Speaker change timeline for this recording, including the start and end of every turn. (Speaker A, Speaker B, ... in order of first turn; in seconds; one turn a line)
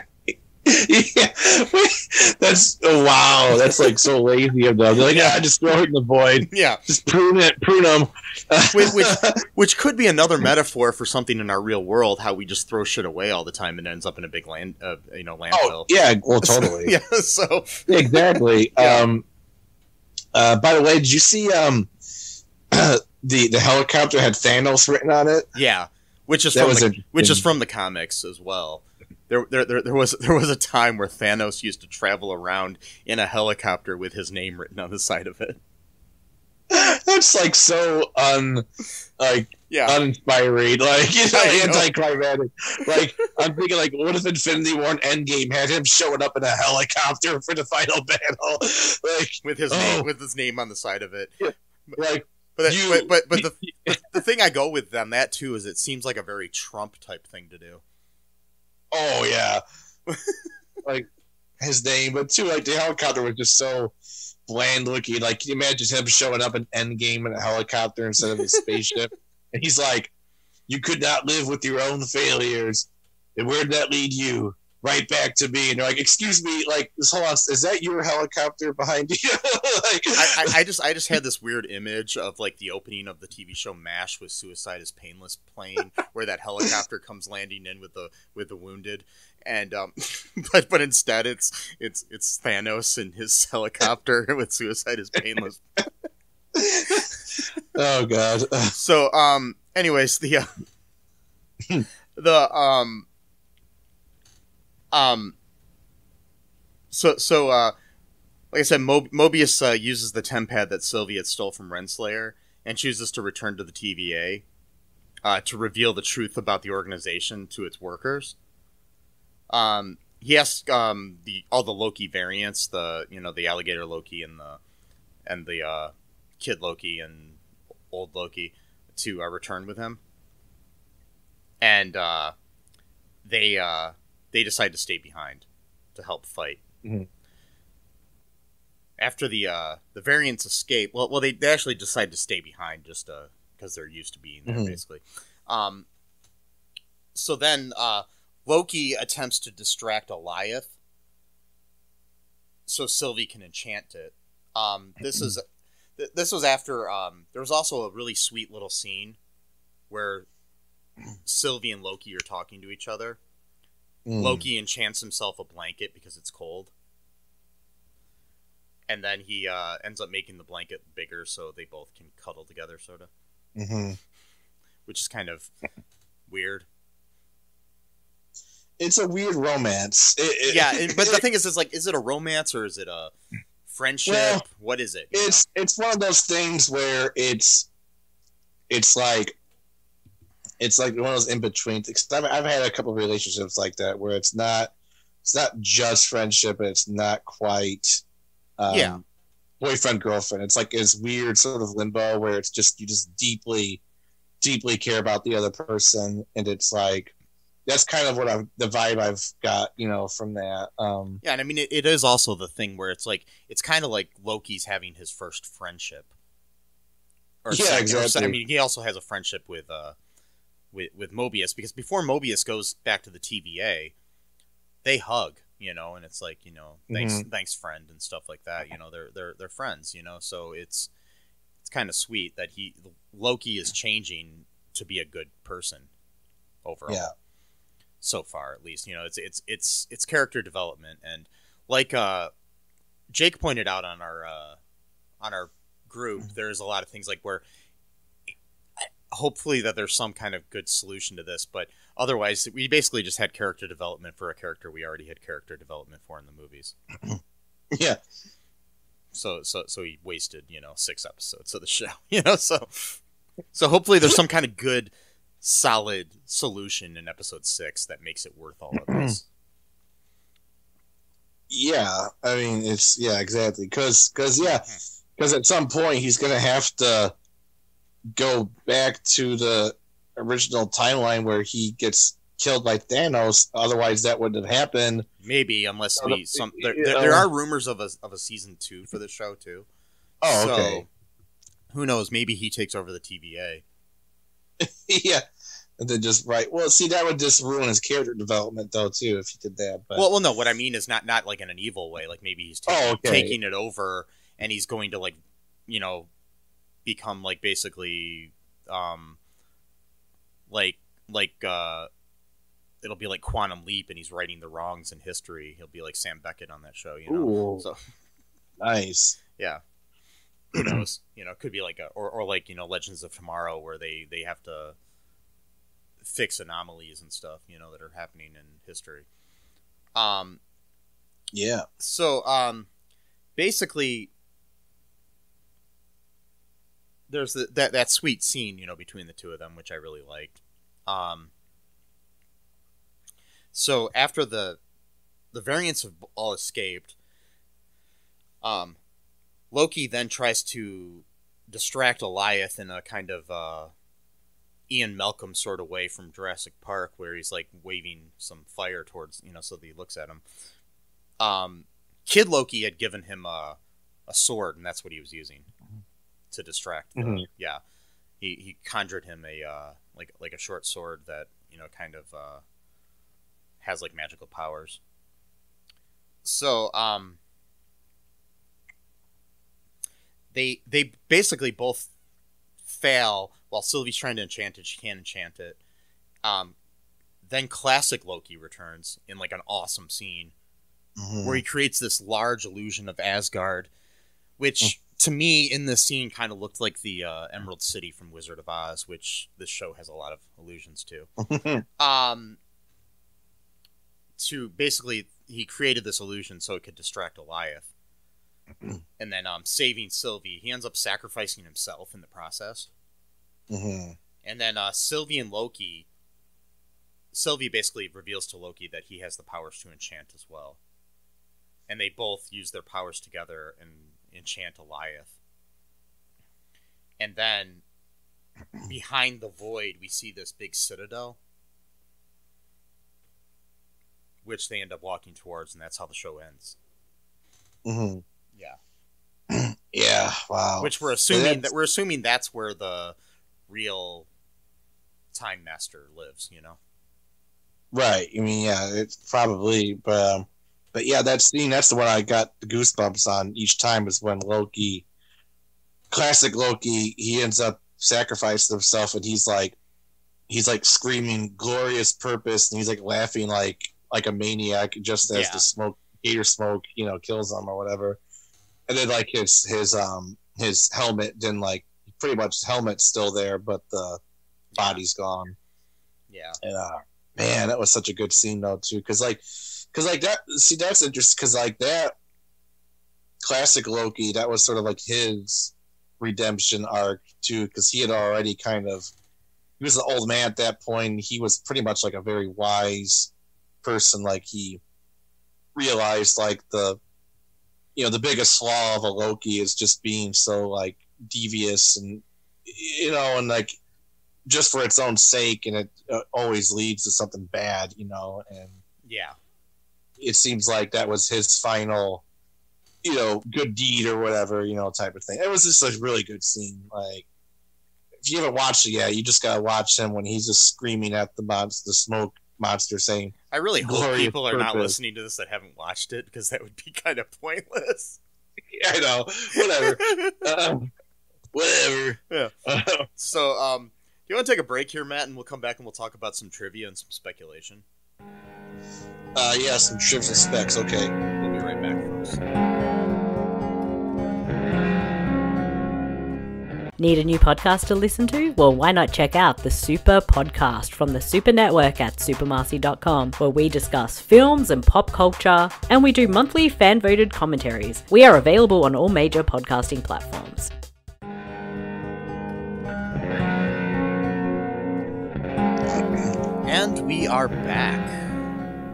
Speaker A: 0.6-9.4
Speaker B: 5.0-5.4
Speaker B: 6.5-6.8
Speaker B: 8.7-15.9
Speaker A: 15.5-16.9
Speaker B: 16.4-19.1
Speaker A: 17.9-19.2
Speaker A: 20.3-21.9
Speaker A: 22.7-25.5
Speaker B: 25.6-35.6
Speaker A: 26.6-27.4
Speaker A: 36.7-38.6
Speaker A: 39.2-50.1
Speaker B: 39.7-40.0
Speaker B: 41.3-41.9
Speaker B: 49.4-52.0
Speaker A: 51.4-53.5
Speaker B: 52.6-57.8
Speaker A: 58.9-59.6
Speaker B: 60.1-60.4
Speaker A: 61.6-64.0
Speaker A: 64.5-70.1
Speaker A: 70.7-80.5
Speaker B: 80.2-95.8
Speaker A: 96.5-97.1
Speaker A: 97.7-98.8
Speaker B: 98.8-100.5
Speaker B: 102.2-103.1
Speaker B: 104.9-105.3
Speaker B: 106.9-107.7
Speaker B: 108.5-114.4
Speaker B: 115.2-118.3
Speaker B: 119.5-124.6
Speaker B: 125.3-127.4
Speaker B: 127.9-130.0
Speaker B: 131.6-132.3
Speaker B: 133.2-136.6
Speaker B: 139.0-145.9
Speaker A: 144.5-144.8
Speaker B: 147.2-150.7
Speaker B: 152.7-155.4
Speaker B: 156.0-159.2
Speaker B: 159.9-160.3
Speaker B: 161.2-163.2
Speaker A: 164.1-164.4
Speaker B: 164.2-166.7
Speaker B: 168.9-173.1
Speaker A: 173.6-174.0
Speaker B: 174.9-175.5
Speaker B: 176.3-176.7
Speaker A: 178.8-181.2
Speaker B: 180.5-183.1
Speaker B: 183.7-185.4
Speaker A: 184.1-184.4
Speaker A: 185.1-187.7
Speaker A: 188.7-189.4
Speaker A: 190.6-194.7
Speaker A: 195.2-198.0
Speaker A: 198.6-199.0
Speaker B: 198.7-199.0
Speaker A: 199.6-203.8
Speaker A: 204.4-207.1
Speaker A: 207.7-211.2
Speaker B: 211.2-216.1
Speaker B: 217.4-219.9
Speaker A: 217.5-218.4
Speaker B: 220.7-223.9
Speaker B: 224.8-230.9
Speaker A: 226.9-227.2
Speaker B: 231.6-235.9
Speaker B: 236.7-237.1
Speaker B: 238.0-242.3
Speaker B: 243.1-244.6
Speaker B: 245.2-247.4
Speaker B: 249.1-256.8
Speaker A: 257.7-258.0
Speaker B: 259.1-263.0
Speaker B: 263.5-269.2
Speaker A: 268.9-269.2
Speaker A: 271.5-277.1
Speaker B: 274.4-274.8
Speaker A: 278.1-285.1
Speaker B: 285.2-289.7
Speaker A: 286.0-287.3
Speaker A: 290.2-290.9
Speaker B: 290.2-290.9
Speaker B: 291.7-293.6
Speaker A: 294.6-295.2
Speaker A: 295.8-300.1
Speaker B: 299.9-305.2
Speaker A: 302.7-303.4
Speaker B: 305.7-306.1
Speaker B: 306.9-309.2
Speaker B: 310.5-311.9
Speaker B: 312.8-317.8
Speaker A: 317.1-317.6
Speaker A: 318.6-319.2
Speaker B: 319.4-319.6
Speaker B: 320.5-324.8
Speaker B: 326.0-329.1
Speaker B: 329.9-330.4
Speaker A: 331.3-331.6
Speaker B: 331.8-332.7
Speaker B: 333.4-334.1
Speaker B: 337.1-341.3
Speaker B: 343.5-344.6
Speaker B: 345.3-346.9
Speaker B: 348.4-348.8
Speaker B: 349.5-353.7
Speaker B: 354.7-360.2
Speaker B: 361.2-365.5
Speaker B: 366.3-367.6
Speaker A: 367.0-367.2
Speaker B: 368.2-372.4
Speaker B: 373.6-374.8
Speaker B: 376.2-377.2
Speaker B: 380.3-381.9
Speaker B: 382.7-385.6
Speaker B: 386.2-386.6
Speaker B: 387.2-390.3
Speaker A: 391.0-391.4
Speaker B: 391.2-393.7
Speaker B: 394.4-401.1
Speaker A: 401.2-401.6
Speaker B: 401.8-402.4
Speaker B: 404.2-407.7
Speaker B: 409.0-412.7
Speaker A: 413.5-414.0
Speaker B: 414.2-415.9
Speaker B: 417.1-420.6
Speaker B: 421.7-425.1
Speaker B: 427.0-427.6
Speaker B: 428.6-431.2
Speaker B: 434.2-436.6
Speaker A: 437.6-438.0
Speaker A: 439.3-441.5
Speaker B: 440.6-443.0
Speaker B: 443.5-444.1
Speaker B: 445.1-446.6
Speaker A: 447.7-454.9
Speaker A: 455.9-459.6
Speaker A: 460.3-468.0
Speaker B: 465.1-465.5
Speaker A: 468.7-474.0
Speaker B: 474.5-474.8
Speaker A: 474.6-475.4
Speaker B: 476.1-476.4
Speaker A: 476.4-481.9
Speaker A: 483.2-488.9
Speaker A: 489.6-493.1
Speaker A: 493.6-494.6
Speaker A: 495.6-496.8
Speaker A: 497.8-503.6
Speaker A: 504.3-508.6
Speaker B: 508.9-509.2
Speaker A: 510.0-512.0
Speaker A: 512.8-517.0
Speaker A: 518.0-524.8
Speaker B: 523.3-528.0
Speaker A: 528.5-530.7
Speaker B: 529.4-530.2
Speaker A: 531.3-532.9
Speaker B: 533.0-537.6
Speaker A: 539.1-540.9
Speaker B: 541.1-542.2
Speaker C: 546.8-560.5
Speaker B: 566.4-568.0